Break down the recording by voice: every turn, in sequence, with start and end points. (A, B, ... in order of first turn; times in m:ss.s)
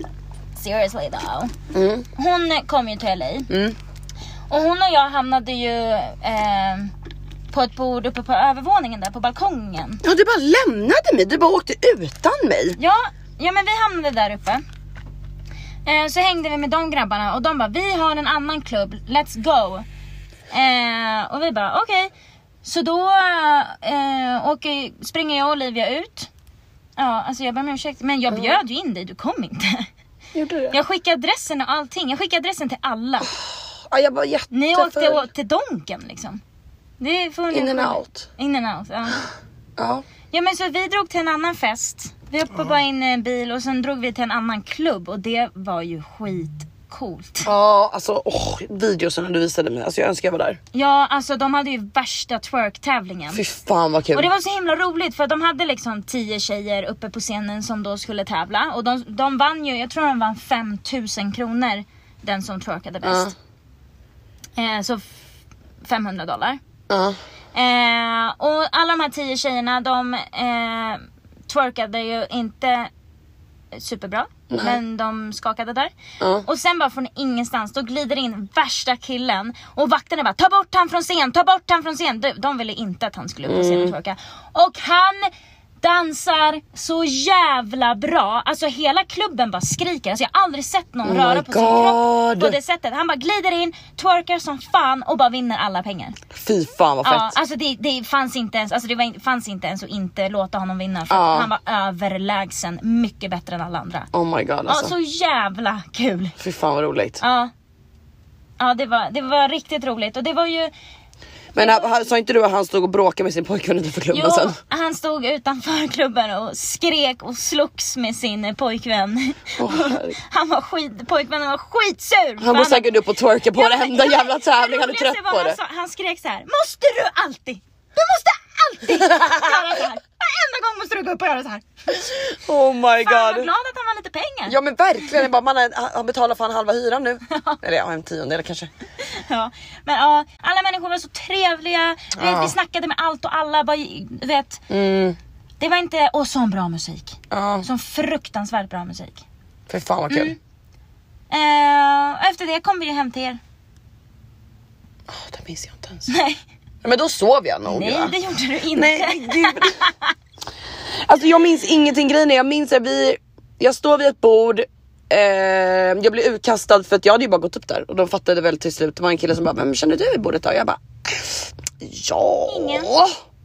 0:00.5-0:01.5 A
0:01.7-0:02.0 B
0:02.1-0:03.5 A
0:03.5-0:03.8 B
0:04.5-0:06.9 A
0:07.5-0:10.0 A
0:10.0-0:12.8 B
0:12.8-0:14.6 A
0:15.8-0:19.8 A
0:20.5-0:22.1 A
0:22.6-0:26.3 A
0:27.0-0:29.9 A
0:28.3-0:28.6 B
0:30.3-0:30.8 B
0:30.7-0:33.3 A
0:33.9-0:35.3 B
0:34.5-0:36.4 A
0:37.0-0:39.2 A
0:37.5-0:38.3 B
0:39.8-0:40.0 B
0:40.3-0:47.5 A
0:47.4-0:50.6 B
0:50.7-0:53.4 A
0:53.3-0:54.3 B
0:54.1-1:03.3 A
1:03.0-1:03.3 B
1:04.6-1:05.1 A
1:05.8-1:06.6 A
1:06.9-1:07.2 B
1:07.5-1:12.9 A
1:13.7-1:36.2 A
1:14.5-1:14.8 B
1:16.2-1:16.4 B
1:23.5-1:23.9 B
1:31.0-1:32.6 B
1:36.3-1:37.4 B
1:37.0-1:44.1 A
1:41.1-1:41.5 B
1:44.1-1:44.9 B
1:44.7-1:46.3 A
1:46.4-1:47.2 B
1:47.2-1:47.5 A
1:48.6-1:50.7 A
1:51.5-1:54.6 B
1:51.6-1:51.9 A
1:54.1-2:02.9 A
1:59.6-2:00.2 B
2:02.4-2:05.6 B
2:03.5-2:11.7 A
2:09.0-2:09.5 B
2:11.9-2:13.5 B
2:13.0-2:14.6 A
2:14.5-2:18.7 B
2:17.3-2:17.6 A
2:19.0-2:24.6 A
2:22.1-2:22.5 B
2:24.7-2:25.2 B
2:25.6-2:29.2 A
2:27.3-2:27.7 B
2:29.7-2:30.3 B
2:30.1-2:30.4 A
2:31.3-2:33.4 A
2:35.1-2:36.1 B
2:36.1-2:36.4 A
2:36.8-2:38.1 B
2:37.6-2:40.1 A
2:38.7-2:39.8 B
2:41.0-2:53.1 B
2:52.5-2:52.9 A